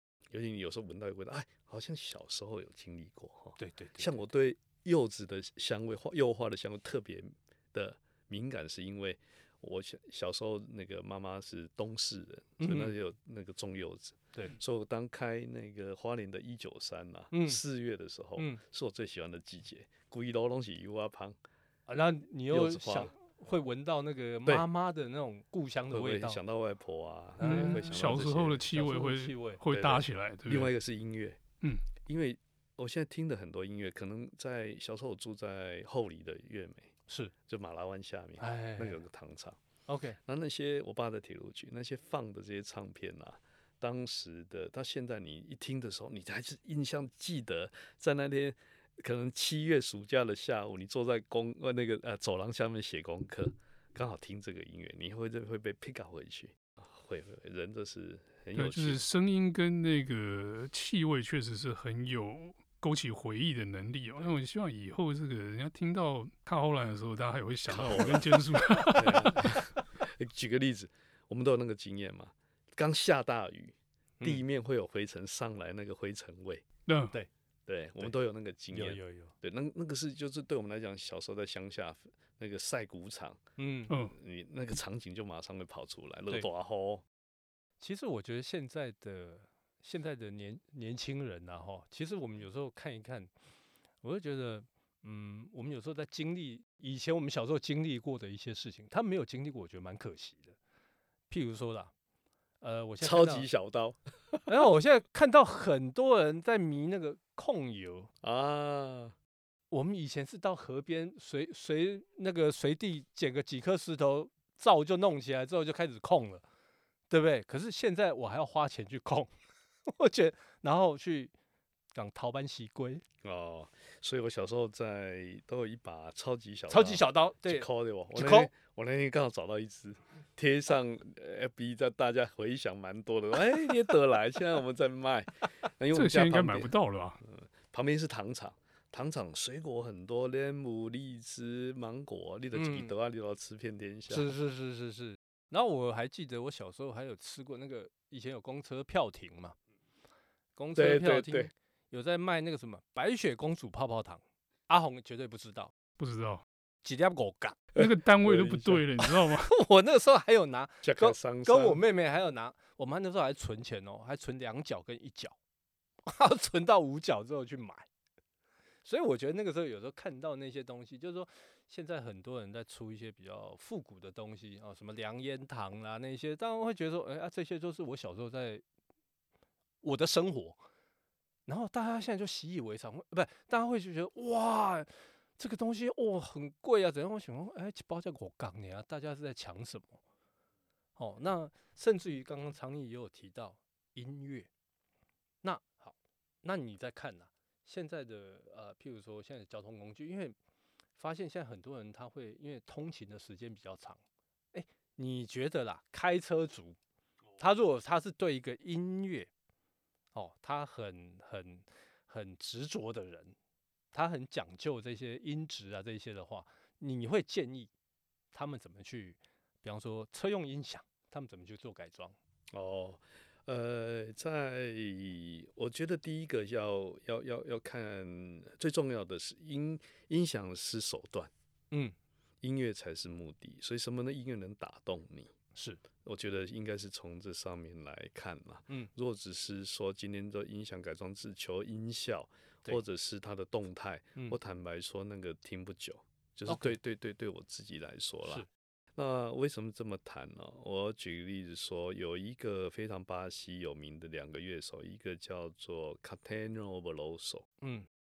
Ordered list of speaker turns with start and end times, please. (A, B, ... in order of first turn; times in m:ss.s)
0:00.3-0:21.4 A
0:03.6-0:04.3 B
0:12.6-0:12.9 B
0:17.3-0:17.6 B
0:21.9-0:26.4 B
0:22.5-0:23.1 A
0:25.9-0:28.8 A
0:27.4-0:29.6 B
0:27.4-0:30.7 C
0:29.7-0:31.4 A
0:31.6-0:31.9 C
0:32.0-0:36.9 A
0:37.5-0:39.6 A
0:38.4-0:39.0 B
0:39.9-0:40.2 B
0:40.2-0:59.0 A
0:58.6-1:09.6 C
1:07.7-1:16.7 A
1:07.8-1:08.2 B
1:16.9-1:17.1 C
1:17.7-1:23.4 A
1:18.7-1:19.3 B
1:23.6-1:23.9 B
1:23.9-1:24.1 C
1:24.1-1:27.0 A
1:27.8-1:33.3 B
1:34.0-1:40.6 B
1:41.3-1:41.9 B
1:42.6-1:43.5 B
1:43.0-1:44.6 A
1:44.5-1:48.1 B
1:48.2-1:49.2 A
1:49.7-1:56.4 B
1:57.1-1:59.3 B
1:59.9-2:01.3 B
2:01.9-2:03.0 B
2:03.2-2:24.3 A
2:06.7-2:08.5 B
2:15.9-2:17.2 C
2:22.5-2:22.9 B
2:24.1-2:29.6 B
2:30.6-2:35.7 B
2:30.8-2:31.5 A
2:36.0-2:36.4 C
2:36.8-2:37.6 B
2:37.8-2:38.9 A
2:37.8-2:39.5 C
2:39.0-2:45.4 B
2:40.8-2:41.8 A
2:46.1-2:47.9 B
2:48.8-2:58.6 B
2:59.8-3:00.6 B
3:01.5-3:10.0 B
3:11.0-3:14.5 B
3:15.4-3:20.4 B
3:21.0-3:24.0 B
3:24.5-3:26.8 B
3:27.4-3:29.3 B
3:30.1-3:33.4 B
3:33.9-3:37.7 B
3:38.3-3:42.2 B
3:42.5-3:51.3 A
3:52.4-3:55.3 A
3:55.6-3:55.8 B
3:56.0-4:17.5 A
4:06.5-4:06.8 B
4:17.6-4:17.9 B